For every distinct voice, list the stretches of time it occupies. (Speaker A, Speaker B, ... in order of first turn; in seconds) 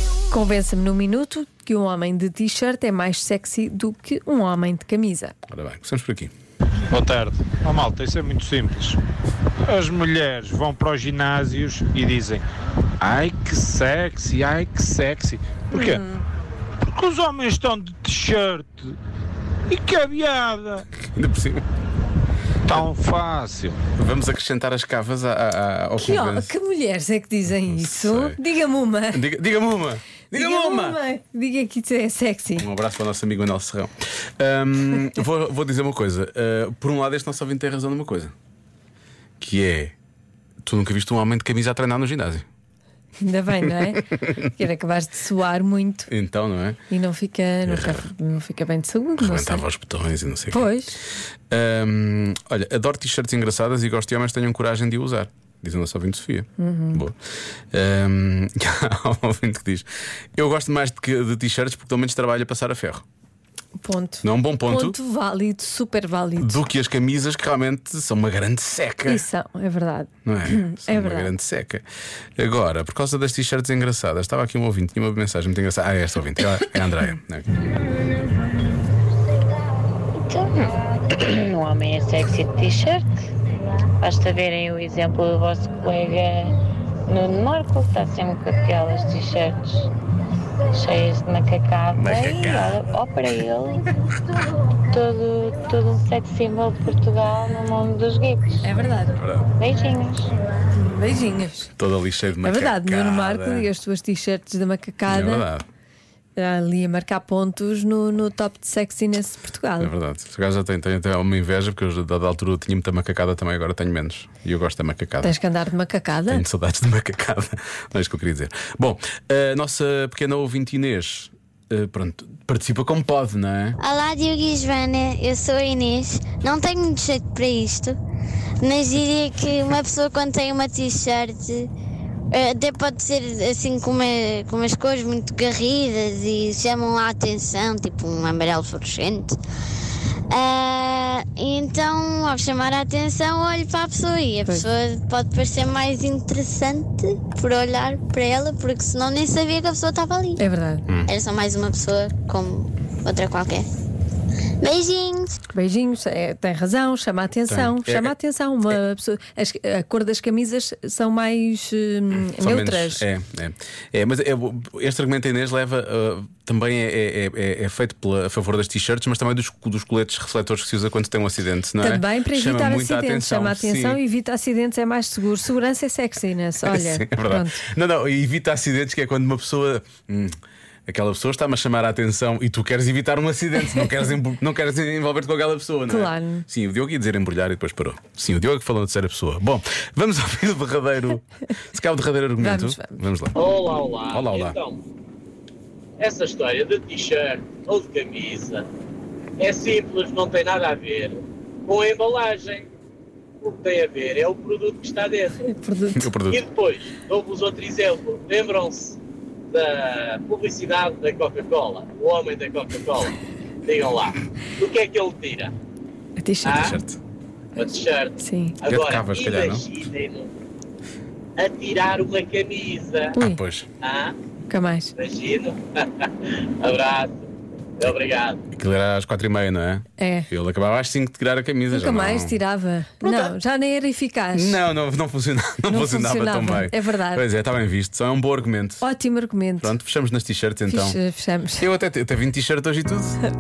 Speaker A: 0.3-5.4, 15.7-16.2, 26.0-29.2, 30.3-32.7, 43.2-46.1, 46.9-49.6, 50.5-51.0, 56.6-57.0, 63.8-66.6, 69.1-71.3, 98.6-99.2, 100.8-101.7, 102.4-105.5, 106.4-109.9, 115.2-116.4, 150.4-150.8, 155.5-163.1, 171.8-177.6, 185.9-186.5, 192.4-193.0, 205.4-206.1, 216.2-216.7, 218.2-218.6, 223.2-223.4, 224.5-224.9, 230.0-230.3, 231.7-234.6, 235.7-237.2, 238.8-239.7, 240.7-241.6
Speaker B: 5.5-6.3, 21.0-21.6, 24.0-26.5, 27.5-28.4, 29.1-31.0, 32.6-38.3, 39.4-40.0, 40.6-42.5, 46.1-46.8, 47.7-48.0, 49.2-50.7, 51.5-57.2, 57.7-63.0, 64.2-65.0, 66.4-69.2, 70.2-71.8, 72.4-77.5, 91.9-92.9, 99.2-99.5, 101.8-103.7, 105.1-105.7, 109.8-115.3, 116.3-123.8, 157.5-158.2, 162.3-174.0, 176.6-193.4, 194.1-194.6, 205.9-206.4, 216.5-217.0, 218.7-219.7, 223.2-223.7, 228.5-232.4, 233.0-233.3, 234.3-238.8, 239.6-241.0, 241.6-243.2
Speaker C: 6.9-9.0, 9.7-12.5, 13.0-16.1, 16.9-19.0, 19.7-20.9, 22.7-23.8
Speaker D: 80.2-83.2, 84.0-86.5, 87.1-89.9, 90.7-93.9, 94.9-98.6, 99.6-100.3
Speaker E: 123.8-128.0, 128.6-131.7, 132.3-139.4, 140.3-150.4, 151.1-153.7, 154.6-155.3
Speaker F: 193.4-194.8, 196.0-198.7, 199.4-202.7, 203.4-205.4, 206.3-209.0, 209.5-215.5, 216.4-216.8, 217.6-220.3, 221.4-223.2, 223.8-224.2, 225.0-228.4